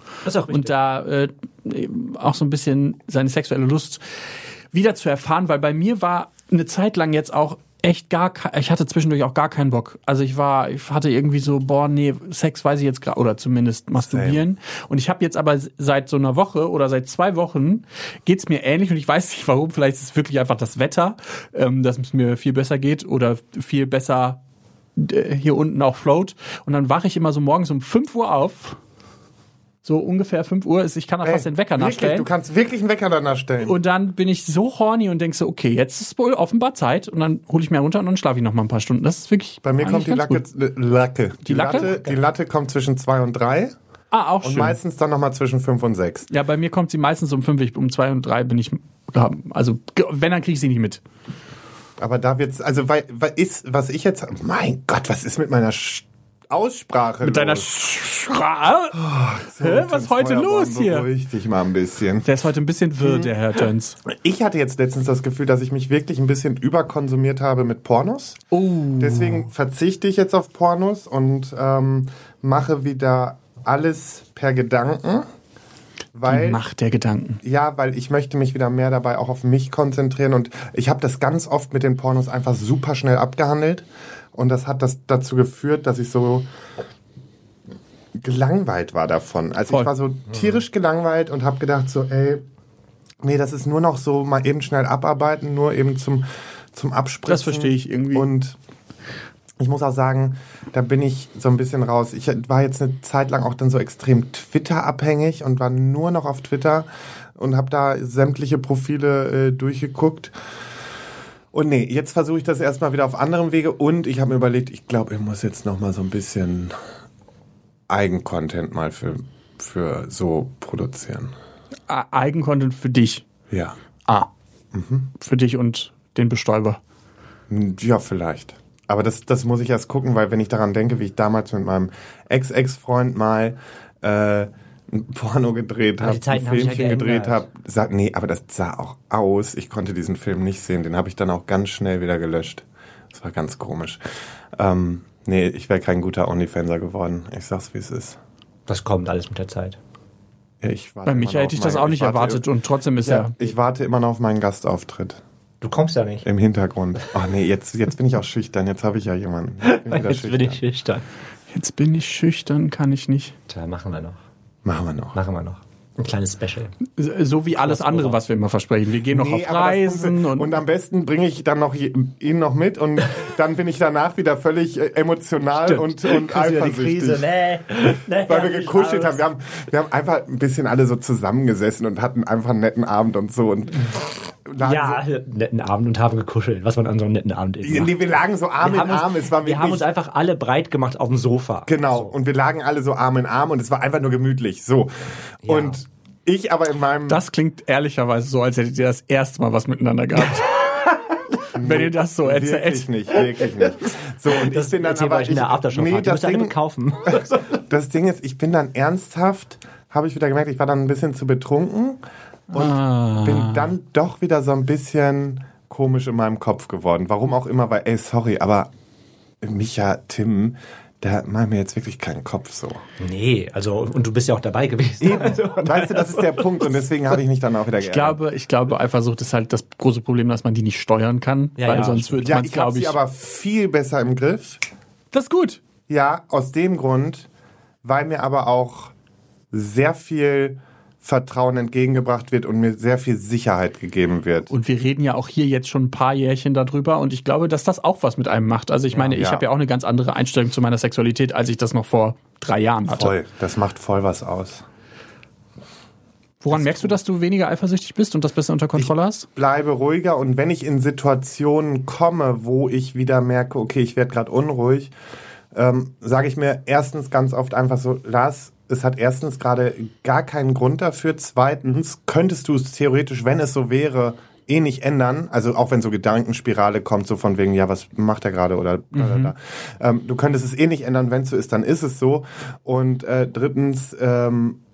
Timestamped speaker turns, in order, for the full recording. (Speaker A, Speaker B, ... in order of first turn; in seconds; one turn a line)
Speaker A: 0.2-0.7
Speaker B: 0.5-4.0
Speaker B: 4.7-24.4
Speaker C: 14.0-14.4
Speaker B: 25.0-28.8
Speaker B: 29.8-32.3
Speaker C: 31.2-33.8
Speaker B: 33.6-40.4
Speaker C: 39.6-43.8
Speaker B: 41.5-41.9
Speaker A: 41.9-42.2
Speaker B: 44.1-44.8
Speaker C: 44.4-46.3
Speaker B: 46.3-51.0
Speaker C: 52.0-57.7
Speaker B: 57.2-59.0
Speaker C: 58.9-62.3
Speaker B: 59.6-61.1
Speaker B: 62.2-64.0
Speaker C: 63.0-63.3
Speaker C: 64.1-68.4
Speaker B: 68.5-69.5
Speaker C: 69.0-75.3
Speaker C: 76.2-76.6
Speaker B: 76.3-77.4
Speaker C: 77.4-86.5
Speaker C: 88.2-92.4
Speaker C: 93.2-98.6
Speaker B: 97.3-98.3
Speaker C: 99.6-110.3
Speaker C: 111.5-116.7
Speaker C: 117.9-121.3
Speaker B: 121.9-123.2
Speaker C: 123.5-123.8
Speaker C: 124.7-125.1
Speaker B: 125.2-126.8
Speaker C: 127.5-144.0
Speaker A: 136.0-137.4
Speaker C: 144.6-148.2
Speaker A: 148.7-149.8
Speaker C: 150.6-152.4
Speaker B: 151.1-153.4
Speaker C: 153.0-155.2
Speaker A: 155.6-156.3
Speaker C: 156.2-160.7
Speaker A: 159.6-161.1
Speaker B: 161.5-163.3
Speaker A: 163.5-164.2
Speaker C: 164.7-165.2
Speaker A: 165.1-166.7
Speaker B: 167.0-170.5
Speaker A: 167.6-168.2
Speaker C: 169.1-177.2
Speaker A: 175.6-179.2
Speaker C: 178.2-185.0
Speaker A: 184.6-188.0
Speaker C: 187.6-189.9
Speaker A: 188.6-192.1
Speaker C: 191.7-197.2
Speaker A: 195.4-195.8
Speaker B: 197.1-200.8
Speaker B: 201.6-202.9
Speaker C: 201.6-206.6
Speaker A: 204.3-207.6
Speaker C: 207.5-218.7
Speaker B: 212.5-213.7
Speaker C: 219.4-222.8
Speaker A: 223.0-226.7
Speaker C: 225.0-228.2
Speaker B: 227.8-233.0
Speaker A: 231.6-232.2
Speaker C: 232.2-234.6
Speaker B: 235.1-235.6
Speaker C: 235.9-237.3
Speaker C: 237.8-238.9
Speaker C: 239.5-244.5
Speaker B: 244.5-253.1
Speaker C: 248.9-249.5
Speaker C: 252.9-254.6
Speaker B: 256.4-259.3
Speaker C: 256.5-257.0
Speaker C: 258.8-264.9
Speaker C: 265.5-284.6
Speaker B: 278.9-279.3